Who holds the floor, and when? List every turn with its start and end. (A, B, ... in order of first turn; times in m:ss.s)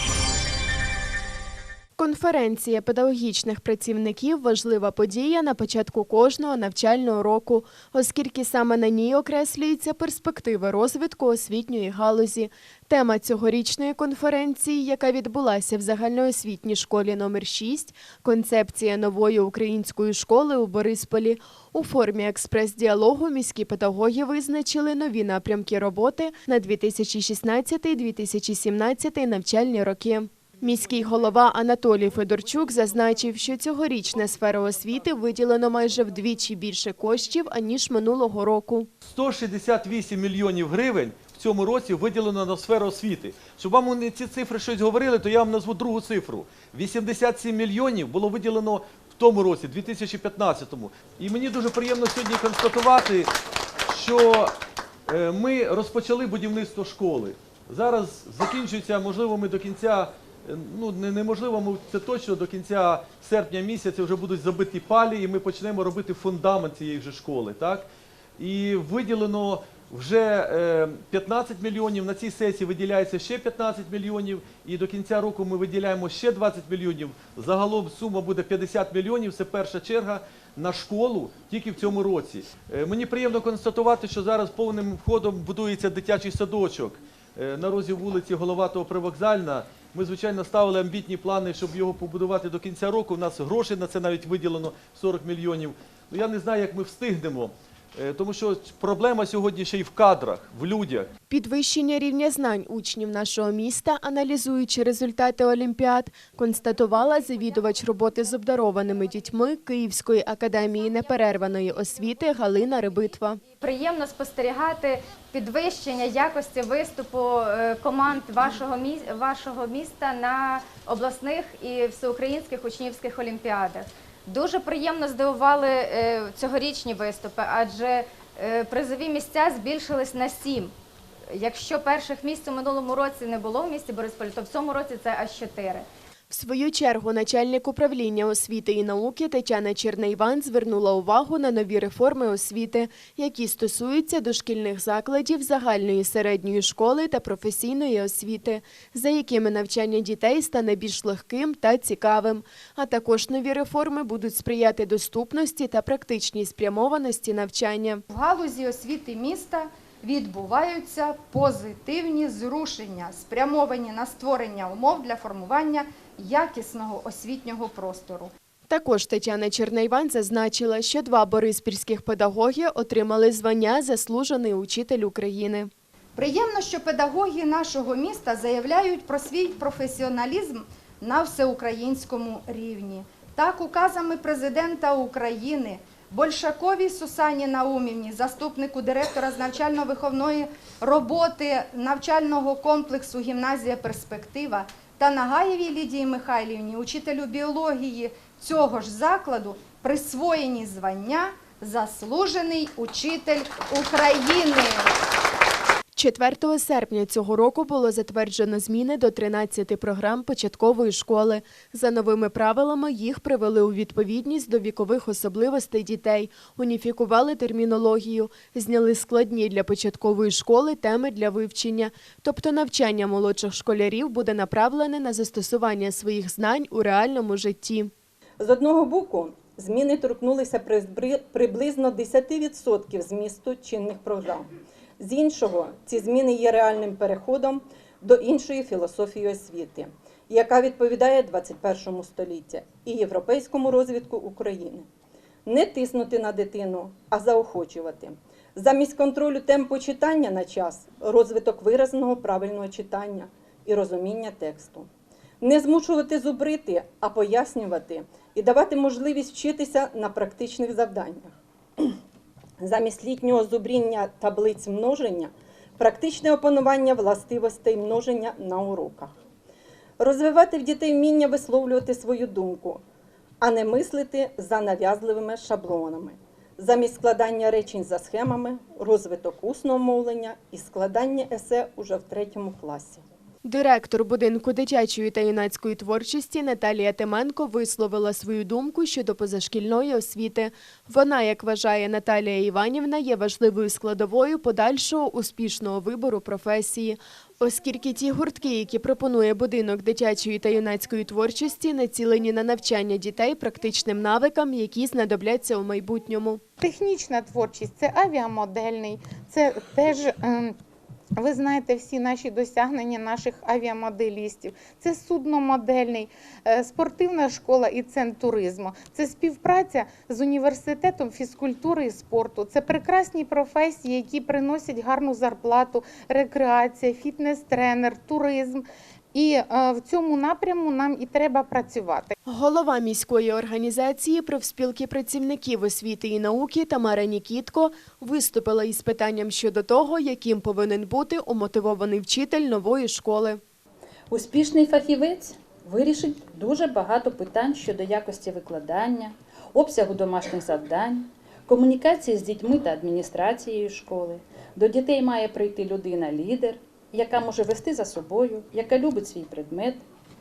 0:02.0-0:38.9 A
0:39.0-0:53.3 B
0:53.9-0:54.5 B
0:55.1-1:07.9 B
1:08.4-1:41.1 B
1:41.3-1:53.4 A
1:53.6-2:10.7 C
2:11.3-2:15.8 C
2:16.3-2:38.0 A
2:38.1-2:48.3 D
2:48.7-2:55.7 A
2:56.2-3:24.9 D
3:26.0-3:47.9 A
3:48.4-4:04.9 E
4:05.5-4:14.9 E
4:15.4-4:21.9 E
4:22.6-4:29.1 E
4:30.0-4:32.8 E
4:33.4-4:43.0 E
4:43.4-5:06.4 A
5:06.6-5:10.6 F
5:11.2-5:32.1 F
5:32.3-5:43.4 A
5:44.1-5:59.8 G